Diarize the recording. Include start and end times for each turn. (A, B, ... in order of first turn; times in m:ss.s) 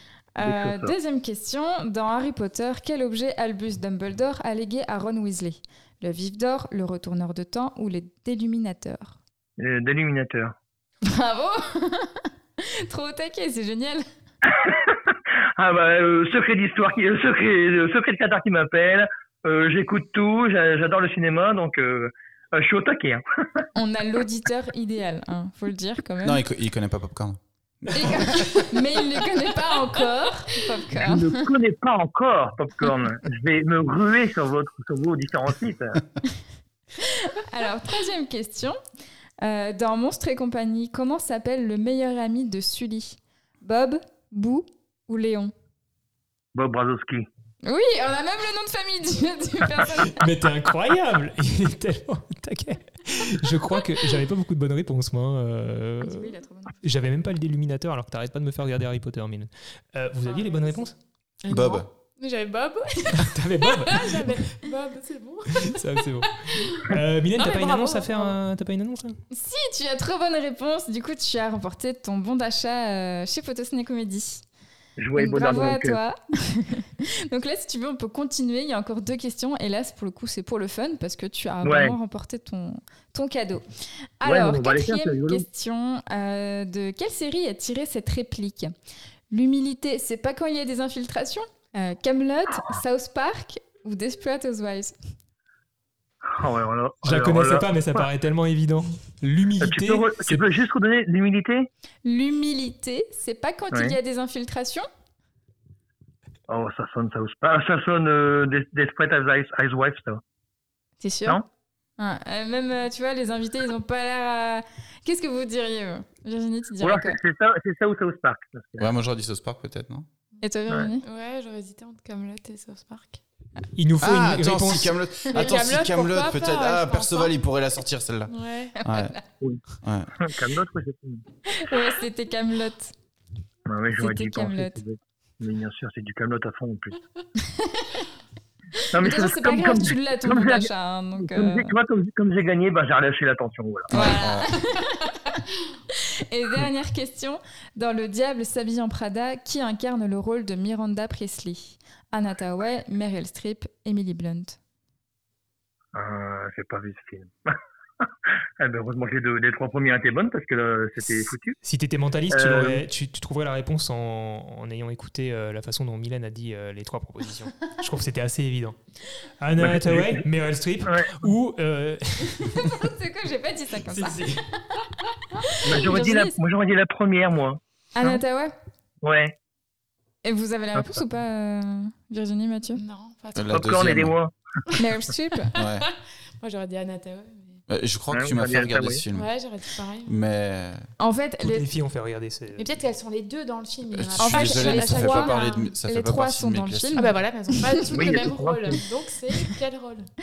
0:00.4-0:09.2 A
0:00.4-0:00.9 B
0:09.6-0:10.6 B
0:11.0-0:14.0 A
0:14.5-0:23.2 B
0:23.8-0:26.4 A
0:26.2-0:28.7 C
0:27.9-0:31.4 A
0:30.9-0:36.0 B
0:37.3-0:38.8 A
0:39.4-0:45.5 A
0:46.5-0:47.3 B
0:47.6-0:50.2 A
0:49.9-1:01.0 D
0:56.0-0:56.8 A
1:01.4-1:06.8 E
1:01.5-1:01.9 C
1:03.2-1:04.4 D
1:05.6-1:09.2 D
1:07.4-1:08.4 E
1:09.3-1:14.4 A
1:15.0-1:16.0 B
1:15.2-1:23.6 A
1:21.6-1:22.0 B
1:24.2-1:28.7 A
1:24.2-1:25.4 B
1:29.3-1:35.0 A
1:36.4-1:37.7 B
1:37.0-1:40.4 D
1:39.6-1:41.7 B
1:42.0-1:44.9 A
1:43.7-1:44.0 B
1:46.5-1:50.2 B
1:51.0-1:51.4 A
1:52.0-1:57.2 A
1:56.8-1:58.9 B
1:58.8-2:00.1 C
2:00.4-2:01.0 A
2:01.0-2:03.2 E
2:03.8-2:05.0 D
2:04.0-2:09.2 C
2:05.3-2:07.3 E
2:08.3-2:08.8 E
2:08.8-2:09.2 A
2:09.8-2:10.1 C
2:10.2-2:11.2 B
2:11.5-2:12.9 A
2:13.7-2:17.0 B
2:14.0-2:14.8 A
2:17.4-2:17.8 A
2:18.9-2:24.0 B
2:19.0-2:21.7 A
2:23.9-2:25.4 A
2:23.9-2:24.5 C
2:25.9-2:34.6 A
2:35.9-2:37.5 B
2:38.6-2:41.6 B
2:41.6-2:48.8 D
2:42.3-2:42.8 B
2:49.4-2:52.9 D
2:49.6-2:50.2 B
2:50.9-2:51.2 B
2:52.5-2:54.8 A
2:53.8-2:54.4 D
2:55.4-2:56.4 A
2:55.6-2:58.2 B
2:58.0-2:58.5 A
2:59.0-2:59.3 B
3:00.2-3:02.8 A
3:02.8-3:03.6 E
3:03.4-3:04.2 C
3:03.5-3:04.8 B
3:04.7-3:05.6 A
3:05.6-3:05.8 C
3:06.4-3:07.6 E
3:07.7-3:09.3 C
3:08.1-3:09.0 B
3:09.1-3:10.2 E
3:10.0-3:10.8 C
3:11.0-3:11.7 A
3:11.4-3:12.7 D
3:12.6-3:15.6 E
3:13.9-3:17.1 C
3:14.2-3:17.2 A
3:17.0-3:20.1 E
3:17.9-3:18.8 B